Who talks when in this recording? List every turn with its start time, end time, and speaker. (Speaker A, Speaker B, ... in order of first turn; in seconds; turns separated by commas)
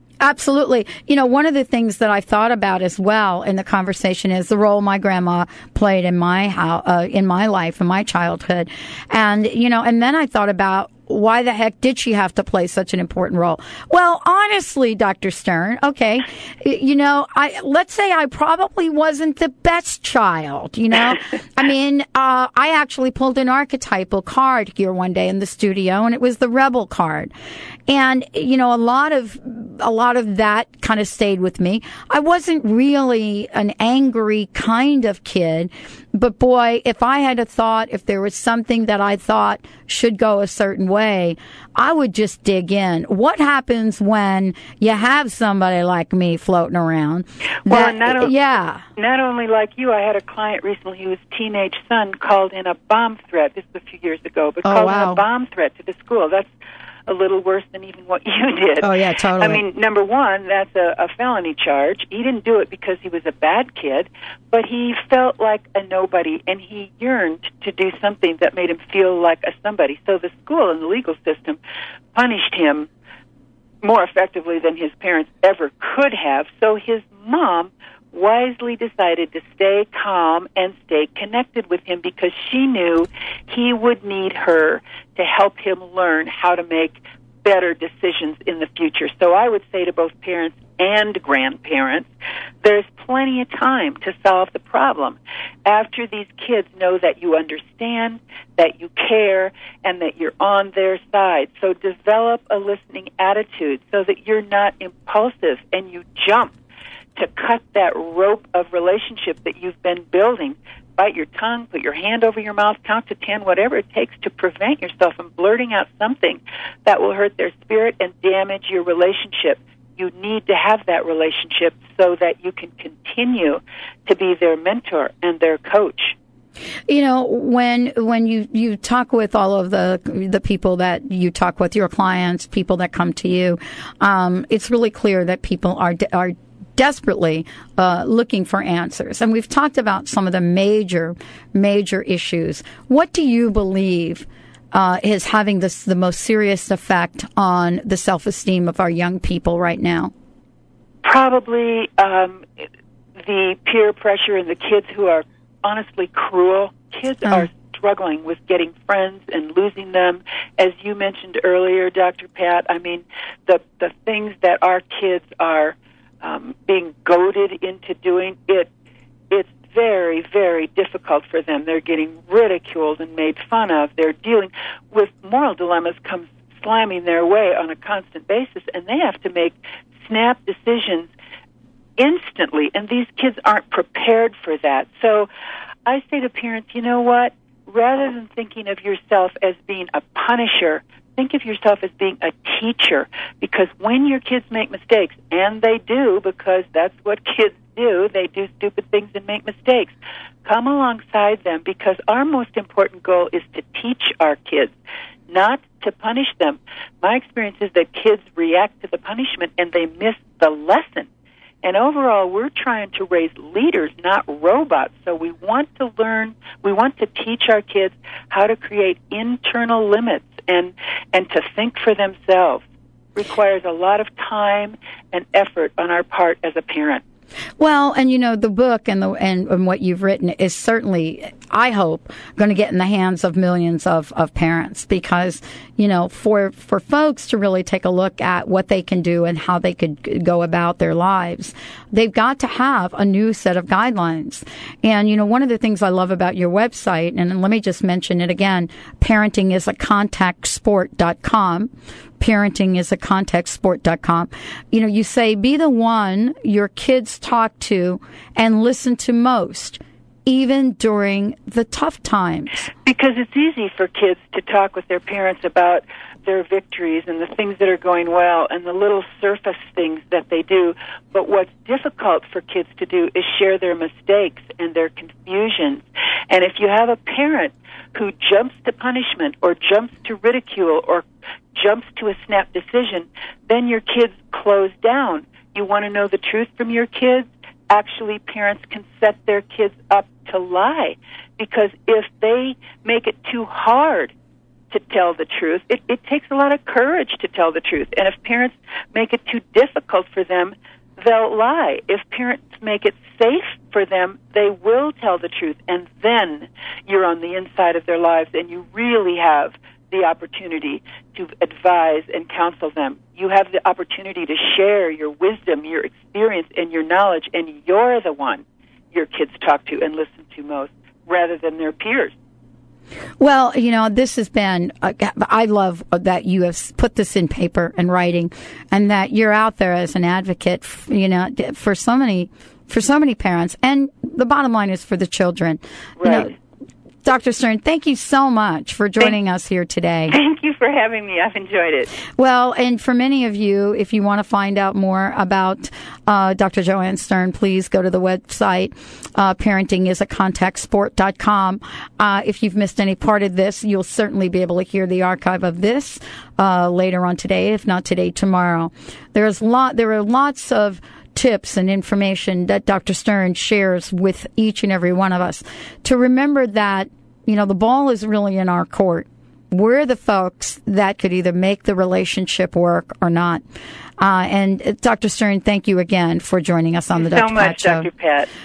Speaker A: 0.2-27.3, Speaker A: 27.9-48.8, Speaker B: 47.7-48.3, Speaker B: 49.0-56.5, Speaker A: 54.6-55.2, Speaker B: 57.1-71.6, Speaker A: 58.8-59.6, Speaker B: 72.1-72.9, Speaker B: 73.8-92.1, Speaker B: 92.6-106.5, Speaker B: 107.2-126.2, Speaker A: 126.9-150.1, Speaker B: 151.0-152.4, Speaker B: 153.2-168.7, Speaker B: 169.3-181.1, Speaker B: 182.0-185.3, Speaker B: 185.8-199.9, Speaker B: 200.4-204.7, Speaker B: 205.3-211.1, Speaker B: 211.6-222.6, Speaker B: 223.1-227.0, Speaker A: 227.6-262.7, Speaker B: 262.9-294.1, Speaker B: 294.7-322.1, Speaker A: 323.2-336.3, Speaker B: 336.0-336.3, Speaker A: 337.0-340.1, Speaker B: 340.1-341.9, Speaker A: 342.1-373.4, Speaker A: 374.0-377.9, Speaker B: 376.9-378.3